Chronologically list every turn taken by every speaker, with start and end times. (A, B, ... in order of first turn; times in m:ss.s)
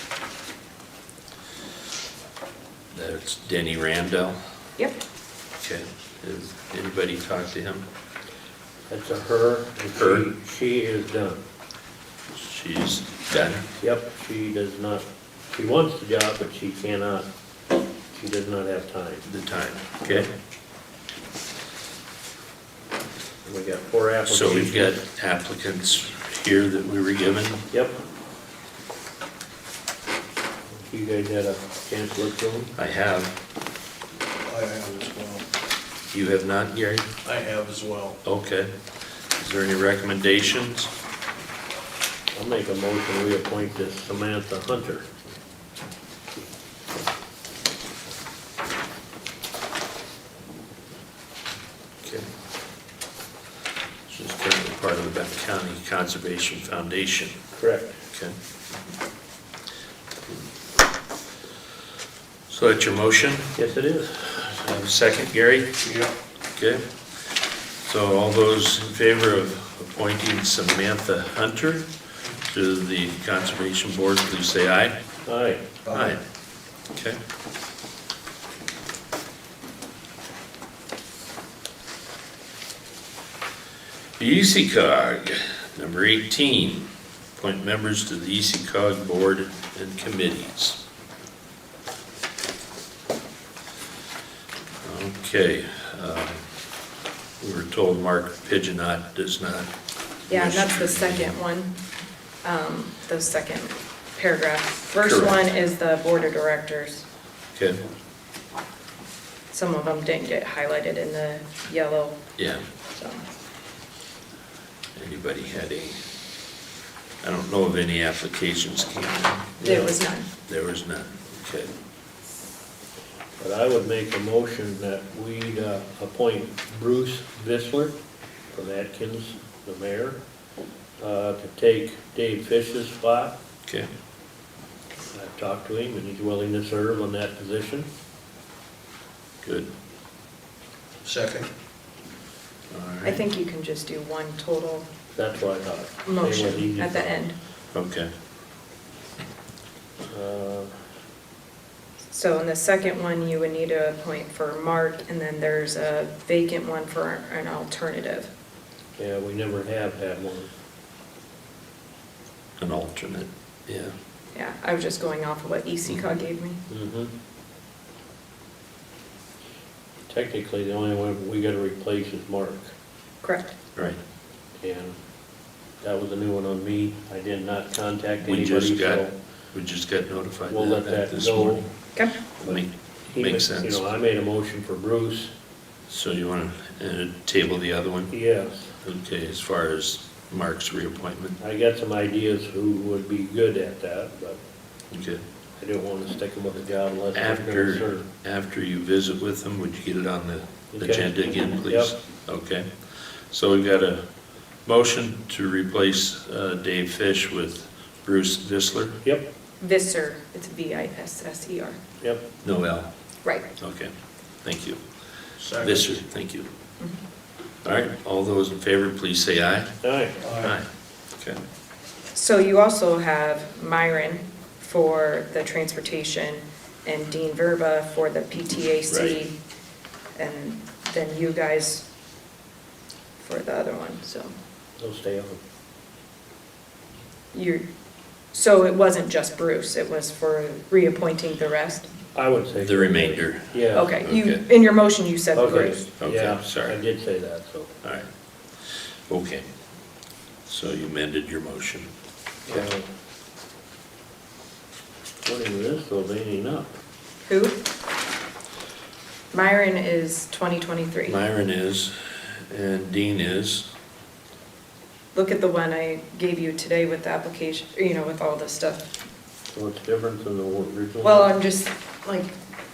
0:02.9-0:04.4 A
0:05.6-0:07.9 A
0:08.9-0:11.4 B
0:09.9-0:10.2 A
0:12.3-0:13.7 A
0:13.8-0:17.3 B
0:18.1-0:19.2 B
0:19.2-0:20.3 A
0:23.4-0:25.0 B
0:24.3-0:27.7 A
0:27.7-0:28.0 B
0:30.7-0:32.7 B
0:32.8-0:33.3 A
0:34.5-0:35.5 C
0:36.1-0:37.1 A
0:37.2-0:38.2 C
0:38.2-0:38.7 A
0:39.4-0:40.9 A
0:42.3-0:45.1 B
0:52.0-0:52.3 A
0:54.1-0:57.4 A
0:57.6-0:58.0 B
1:02.5-1:03.5 A
1:03.6-1:04.5 B
1:04.5-1:05.8 A
1:05.8-1:06.1 C
1:06.6-1:06.8 A
1:07.8-1:11.9 A
1:12.4-1:15.0 A
1:15.2-1:15.7 B
1:15.9-1:16.2 C
1:15.9-1:16.2 A
1:16.9-1:17.2 A
1:24.2-1:30.8 A
1:34.8-1:36.5 A
1:37.4-1:39.7 A
1:40.3-1:41.4 A
1:40.3-1:41.7 D
1:42.4-1:47.0 D
1:45.0-1:45.4 A
1:49.5-1:52.2 D
1:52.4-1:52.6 A
1:52.9-1:53.2 D
1:55.0-1:56.0 A
1:57.2-1:59.6 A
1:59.6-1:59.9 B
1:59.6-2:00.3 D
2:00.5-2:01.7 A
2:03.4-2:08.0 B
2:08.5-2:10.2 B
2:11.0-2:13.4 B
2:15.1-2:17.9 B
2:19.4-2:19.7 A
2:21.0-2:21.5 C
2:22.7-2:23.2 A
2:23.0-2:24.9 D
2:25.2-2:27.2 B
2:26.0-2:27.4 D
2:27.7-2:28.1 A
2:30.1-2:30.8 B
2:32.1-2:38.3 D
2:39.0-2:40.5 B
2:42.6-2:43.9 A
2:44.3-2:46.6 D
2:46.7-2:47.1 B
2:50.1-2:52.7 B
2:53.2-2:53.6 D
2:54.6-2:55.0 B
2:55.8-2:59.2 B
2:58.2-3:01.6 A
3:00.5-3:01.7 B
3:02.4-3:03.9 A
3:03.1-3:05.3 B
3:05.9-3:08.1 A
3:08.1-3:08.8 B
3:08.8-3:11.4 A
3:11.4-3:14.4 B
3:14.9-3:15.2 A
3:15.6-3:18.1 B
3:17.1-3:24.0 A
3:20.7-3:21.9 B
3:24.6-3:29.0 A
3:29.6-3:31.8 D
3:32.4-3:32.9 A
3:33.6-3:33.9 A
3:34.4-3:34.8 A
3:35.4-3:35.9 C
3:35.5-3:36.5 A
3:37.6-3:39.7 A
3:39.8-3:40.2 B
3:40.2-3:40.6 C
3:40.4-3:41.4 A
3:42.1-3:49.4 D
3:48.9-3:49.2 A
3:50.2-3:51.9 D
3:53.2-3:54.3 D
3:54.8-3:55.4 B
3:57.3-3:57.6 D
3:58.3-4:01.9 D
4:02.1-4:03.9 B
4:02.6-4:04.4 A
4:03.7-4:05.8 D
4:05.4-4:07.8 B
4:06.0-4:06.8 A
4:07.8-4:08.1 A
4:08.7-4:09.5 A
4:10.5-4:11.9 A
4:12.5-4:12.9 B
4:15.2-4:16.7 B
4:17.2-4:17.6 D
4:19.3-4:21.2 D
4:21.1-4:23.7 A
4:25.1-4:28.9 D
4:29.5-4:31.3 B
4:31.0-4:32.4 D